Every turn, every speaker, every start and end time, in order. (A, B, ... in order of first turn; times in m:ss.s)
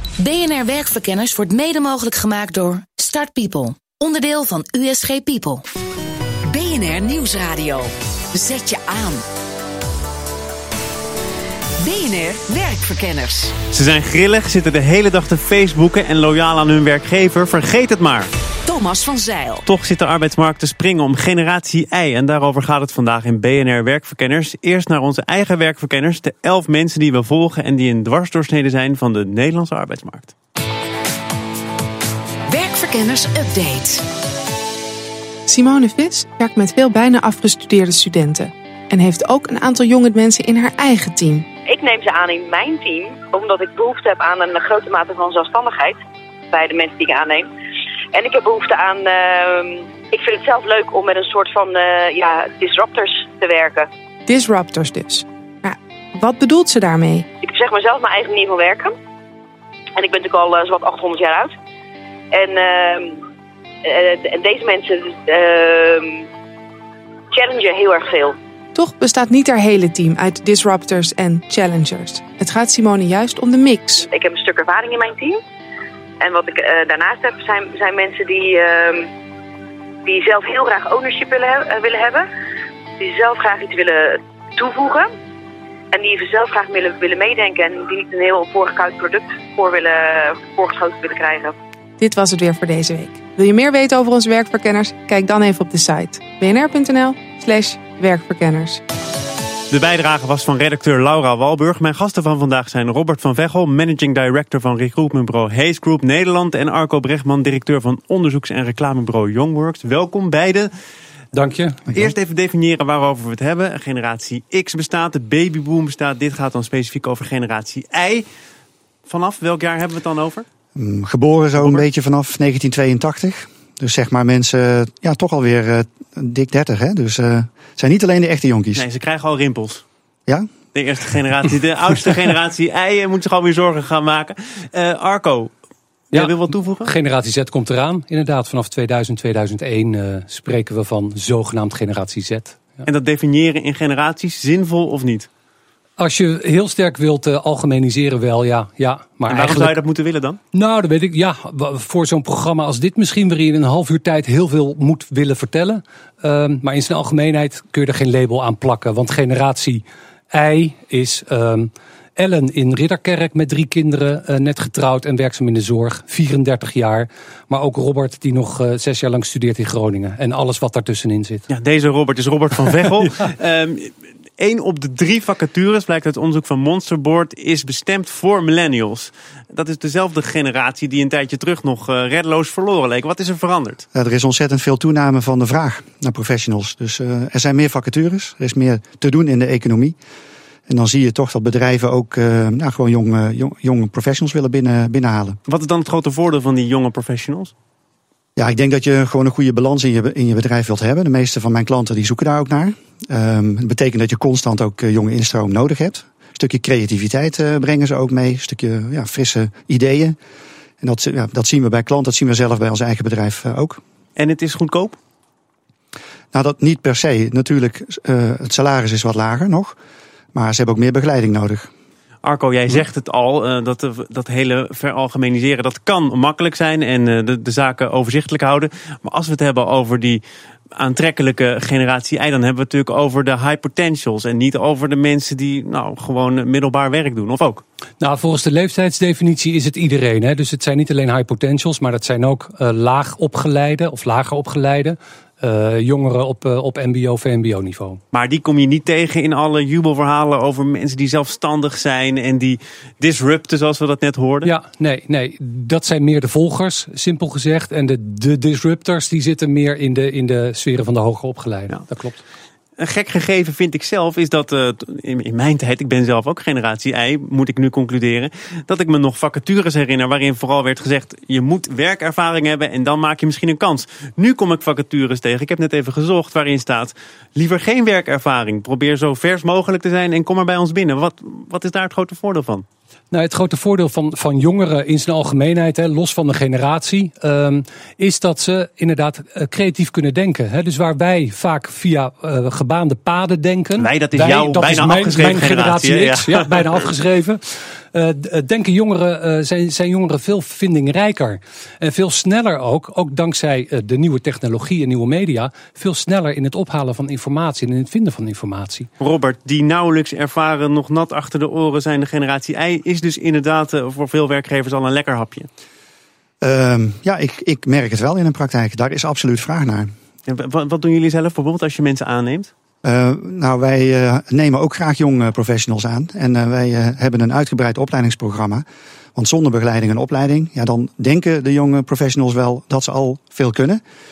0:00.2-0:05.6 A
0:06.5-0:09.2 B
0:11.8-0:13.5 B
0:13.7-0:18.3 C
0:18.7-0:19.7 B
0:19.7-0:30.3 C
0:32.5-0:34.0 B
0:35.5-0:41.5 D
0:41.6-0:46.0 E
0:46.5-0:47.5 E
0:48.1-0:53.9 E
0:54.3-0:57.3 D
0:57.4-0:58.9 E
1:00.0-1:01.6 E
1:02.3-1:03.2 E
1:03.8-1:06.3 E
1:07.3-1:08.4 E
1:08.8-1:14.1 D
1:14.1-1:15.4 E
1:16.2-1:19.1 E
1:20.0-1:22.3 E
1:23.0-1:25.1 E
1:25.9-1:31.6 E
1:32.0-1:38.8 D
1:39.7-1:50.7 C
1:51.3-1:51.8 F
1:51.9-1:58.3 C
1:59.1-2:00.5 C
2:00.8-2:08.9 G
2:08.7-2:09.8 C
2:10.7-2:15.5 C
2:16.1-2:16.9 C
2:16.1-2:22.6 F
2:22.9-2:25.3 C
2:26.0-2:29.8 F
2:29.3-2:30.4 C
2:30.5-2:51.4 F
2:51.5-3:03.8 C
3:03.9-3:10.0 G
3:10.7-3:15.4 G
3:15.5-3:17.5 C
3:18.4-3:30.2 G
3:30.8-3:33.8 G
3:34.2-3:35.0 C
3:36.3-3:39.8 G
3:40.3-3:41.7 G
3:42.2-3:50.2 C
3:50.7-3:57.6 C
3:58.0-4:08.0 F
4:08.1-4:14.5 C
4:14.4-4:22.2 F
4:22.8-4:42.7 C
4:43.1-5:08.9 F
4:53.8-4:56.5 C
5:09.0-5:15.5 C
5:16.4-5:19.9 G
5:20.3-5:22.5 C
5:22.8-5:28.6 G
5:29.2-5:33.8 G